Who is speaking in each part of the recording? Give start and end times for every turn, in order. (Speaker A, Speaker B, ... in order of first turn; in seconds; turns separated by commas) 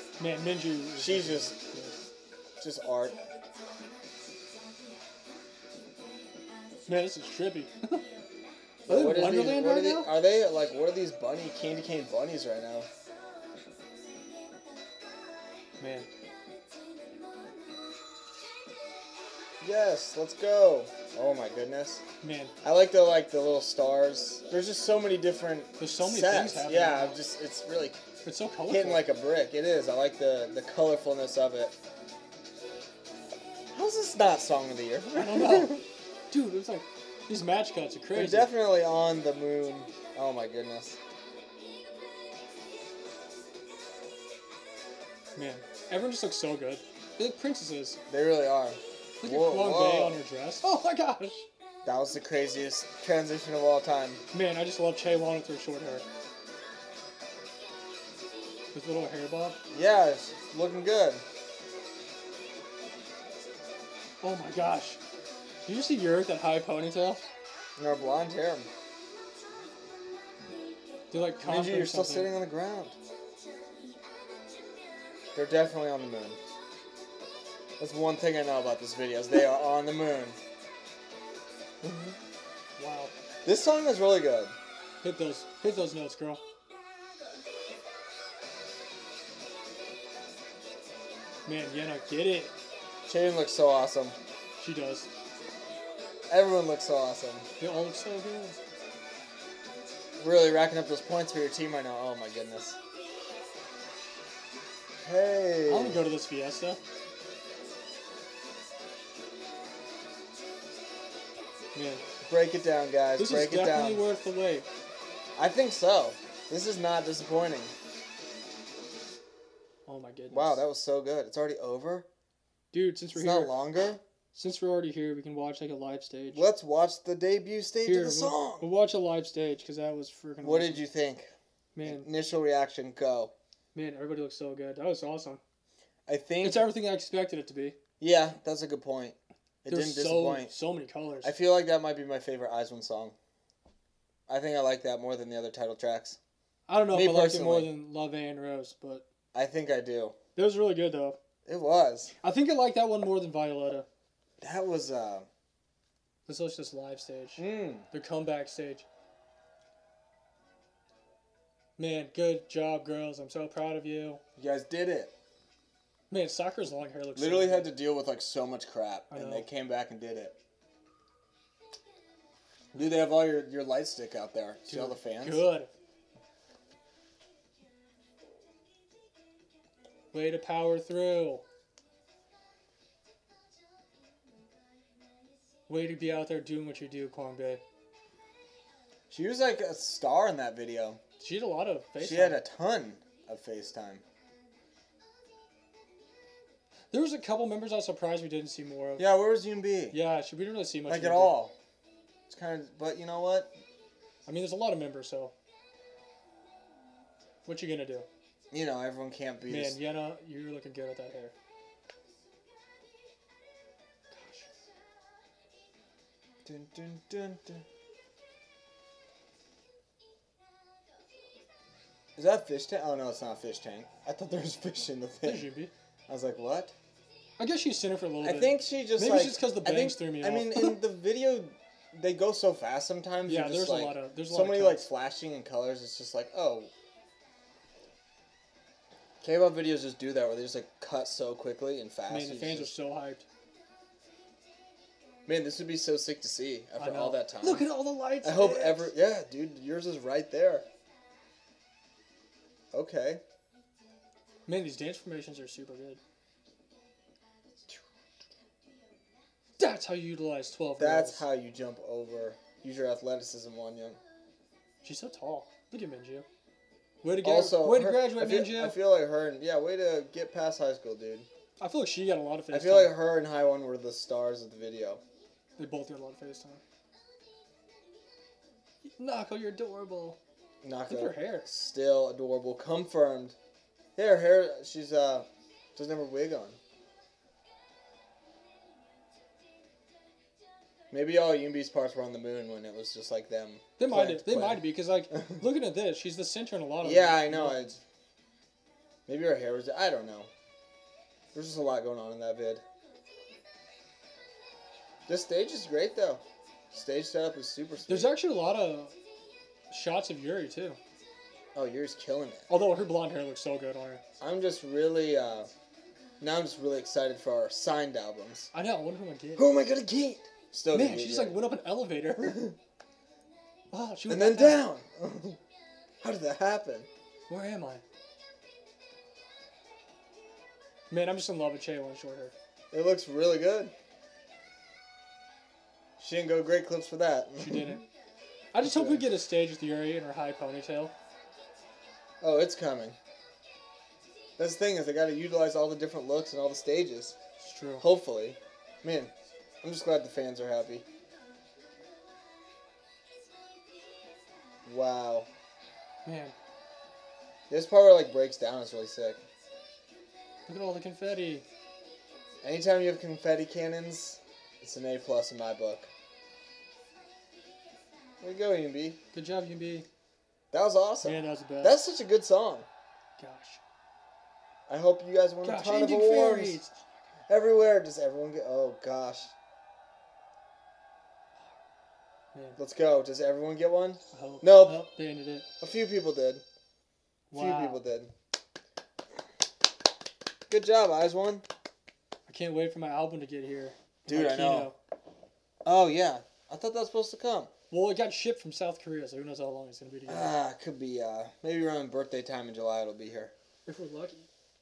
Speaker A: 0.2-2.0, Speaker B: 1.0-1.5, Speaker B: 2.6-3.2, Speaker A: 6.9-8.0, Speaker A: 8.9-10.1, Speaker B: 8.9-12.9, Speaker A: 15.8-16.1, Speaker B: 19.6-22.0, Speaker A: 22.2-22.6, Speaker B: 22.6-28.0, Speaker A: 25.8-27.2, Speaker A: 28.2-29.1, Speaker B: 28.7-31.8, Speaker B: 33.7-35.9, Speaker A: 35.1-38.5, Speaker B: 38.1-41.0, Speaker A: 45.4-48.0, Speaker B: 48.1-50.2, Speaker A: 49.2-51.5, Speaker B: 51.9-54.2, Speaker A: 54.3-56.0, Speaker A: 58.7-59.6, Speaker B: 59.7-61.2, Speaker A: 64.2-65.0, Speaker A: 65.7-67.3, Speaker B: 67.8-68.7, Speaker A: 71.1-72.3, Speaker B: 71.4-73.0, Speaker B: 75.3-76.4, Speaker B: 77.8-80.4, Speaker B: 81.8-82.2, Speaker A: 82.8-83.1, Speaker B: 83.5-84.5, Speaker A: 85.0-86.4, Speaker A: 91.5-92.5, Speaker B: 93.1-94.2, Speaker A: 94.6-95.1, Speaker B: 96.3-97.5, Speaker A: 97.6-98.6, Speaker B: 100.2-102.8, Speaker B: 105.0-106.0, Speaker A: 105.7-106.8, Speaker A: 111.7-112.0, Speaker B: 112.2-114.0, Speaker A: 113.2-114.7, Speaker B: 115.4-117.7, Speaker A: 119.9-120.6, Speaker B: 120.3-122.1, Speaker A: 122.7-123.7, Speaker B: 123.1-124.0, Speaker A: 124.3-126.4, Speaker B: 126.3-128.7, Speaker A: 127.8-130.8, Speaker B: 130.4-131.3, Speaker A: 131.8-132.1, Speaker B: 131.8-133.3, Speaker A: 133.7-135.4, Speaker B: 136.1-136.7, Speaker A: 136.4-137.8, Speaker B: 138.0-140.5, Speaker A: 139.7-141.3, Speaker B: 141.2-143.2, Speaker B: 144.3-146.2, Speaker A: 146.7-149.1, Speaker B: 146.9-147.7, Speaker B: 149.3-150.2, Speaker A: 150.4-151.2, Speaker B: 151.5-152.1, Speaker A: 152.2-153.9, Speaker B: 154.4-155.3, Speaker A: 156.3-158.8, Speaker B: 157.4-157.9, Speaker A: 161.8-164.2, Speaker B: 164.4-165.1, Speaker A: 166.1-167.7, Speaker B: 167.2-170.4, Speaker A: 169.1-169.5, Speaker B: 172.7-175.5, Speaker A: 174.7-175.7, Speaker A: 180.1-181.4, Speaker A: 185.7-187.6, Speaker B: 189.1-191.0, Speaker A: 191.2-192.4, Speaker B: 192.0-194.0, Speaker A: 196.9-199.0, Speaker B: 199.0-200.0, Speaker A: 199.9-201.4, Speaker B: 200.9-201.5, Speaker B: 202.3-203.5, Speaker A: 204.3-205.3, Speaker A: 207.4-208.1, Speaker B: 208.5-209.8, Speaker A: 209.5-211.3, Speaker A: 214.1-214.5, Speaker B: 216.4-217.6, Speaker B: 222.2-225.5, Speaker A: 225.2-225.7, Speaker B: 226.1-226.7, Speaker A: 227.4-230.8, Speaker B: 228.2-236.7, Speaker A: 233.2-234.9, Speaker B: 239.2-242.7, Speaker A: 242.1-243.2, Speaker B: 245.3-247.7, Speaker A: 246.8-248.9, Speaker B: 248.2-250.7, Speaker B: 252.7-253.2, Speaker A: 254.5-256.0, Speaker A: 259.6-261.2, Speaker B: 260.8-264.0, Speaker A: 264.8-266.3, Speaker A: 267.0-268.8, Speaker B: 267.2-271.3, Speaker A: 271.6-272.9, Speaker B: 272.5-275.0, Speaker A: 275.6-276.6, Speaker A: 278.9-280.2, Speaker B: 280.6-283.4, Speaker A: 280.9-281.5, Speaker B: 284.0-286.6, Speaker B: 290.9-294.7, Speaker A: 293.8-297.8, Speaker B: 296.8-297.8, Speaker B: 299.1-300.3, Speaker B: 301.3-302.6, Speaker B: 305.1-308.1, Speaker A: 307.9-308.9, Speaker A: 309.7-310.8, Speaker B: 311.6-312.5, Speaker A: 312.5-314.0, Speaker B: 314.2-315.5, Speaker B: 316.2-318.5, Speaker A: 318.5-319.5, Speaker B: 319.4-321.4, Speaker A: 320.7-322.5, Speaker A: 323.7-324.6, Speaker B: 324.1-325.4, Speaker B: 326.0-326.9, Speaker A: 327.3-327.8, Speaker A: 330.9-332.3, Speaker B: 332.7-333.7, Speaker B: 336.0-337.8, Speaker A: 337.4-337.9, Speaker A: 338.5-340.9, Speaker B: 338.6-339.1, Speaker B: 342.2-343.0, Speaker B: 344.4-347.2, Speaker A: 347.4-347.9, Speaker B: 347.8-350.9, Speaker B: 354.7-355.3, Speaker A: 356.1-356.3, Speaker B: 357.5-359.2, Speaker A: 360.5-361.4, Speaker B: 362.4-365.9, Speaker B: 368.2-369.0, Speaker A: 369.1-369.9, Speaker B: 370.5-372.7, Speaker A: 371.0-371.9, Speaker A: 373.2-373.6, Speaker B: 374.7-376.6, Speaker A: 375.4-376.8, Speaker B: 377.3-379.3, Speaker A: 382.3-382.6, Speaker B: 382.6-384.9, Speaker A: 384.1-385.5, Speaker B: 385.6-386.4, Speaker A: 387.3-387.8, Speaker B: 387.3-388.1, Speaker B: 390.5-391.5, Speaker A: 392.3-394.8, Speaker B: 394.1-394.7, Speaker B: 395.6-397.5, Speaker A: 397.7-400.4, Speaker B: 400.1-403.3, Speaker A: 403.7-404.3